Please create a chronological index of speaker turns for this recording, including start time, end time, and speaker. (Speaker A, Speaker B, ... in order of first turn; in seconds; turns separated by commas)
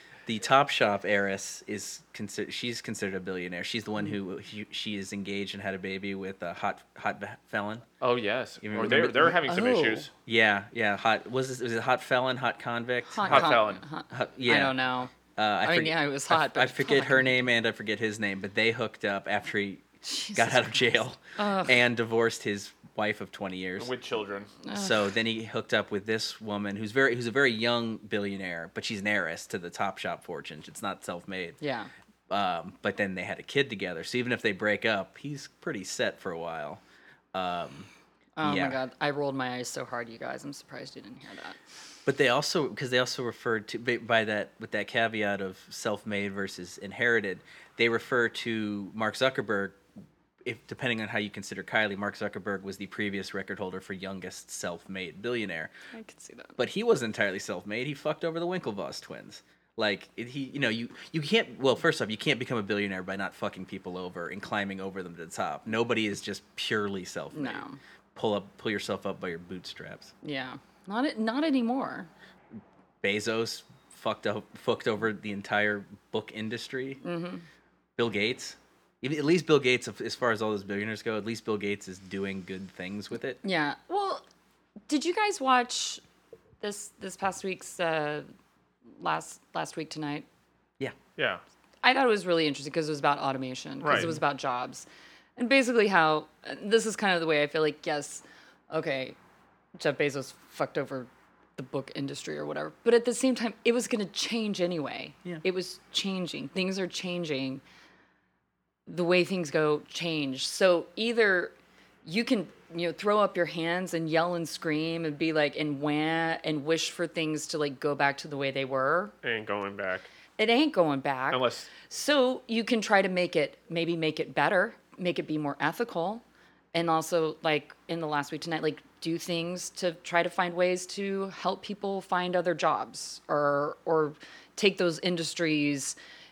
Speaker A: 0.2-7.8, Speaker B: 8.0-10.1, Speaker A: 8.6-9.4, Speaker C: 9.4-10.1, Speaker A: 10.2-19.8, Speaker C: 13.1-17.4, Speaker B: 13.2-13.8, Speaker C: 20.0-21.7, Speaker A: 20.4-23.9, Speaker B: 23.8-24.5, Speaker C: 24.6-25.1, Speaker A: 24.7-31.6, Speaker C: 31.6-31.9, Speaker A: 32.3-36.8, Speaker A: 37.3-37.9, Speaker C: 38.4-41.6, Speaker A: 38.4-38.8, Speaker A: 42.0-49.8, Speaker A: 50.4-55.7, Speaker C: 55.9-56.6, Speaker A: 56.6-67.6, Speaker C: 67.3-67.8, Speaker A: 68.1-70.1, Speaker C: 70.2-72.1, Speaker A: 73.0-77.0, Speaker C: 77.0-77.4, Speaker A: 78.0-83.4, Speaker C: 83.4-84.2, Speaker C: 84.9-86.0, Speaker C: 86.6-88.2, Speaker C: 89.0-90.2, Speaker B: 91.2-91.4, Speaker C: 91.8-94.8, Speaker B: 93.8-94.1, Speaker C: 95.4-99.2, Speaker C: 99.8-107.6, Speaker C: 108.9-111.5, Speaker C: 112.0-119.1, Speaker B: 119.2-120.1, Speaker C: 120.4-126.2, Speaker B: 121.3-121.7, Speaker C: 126.7-135.9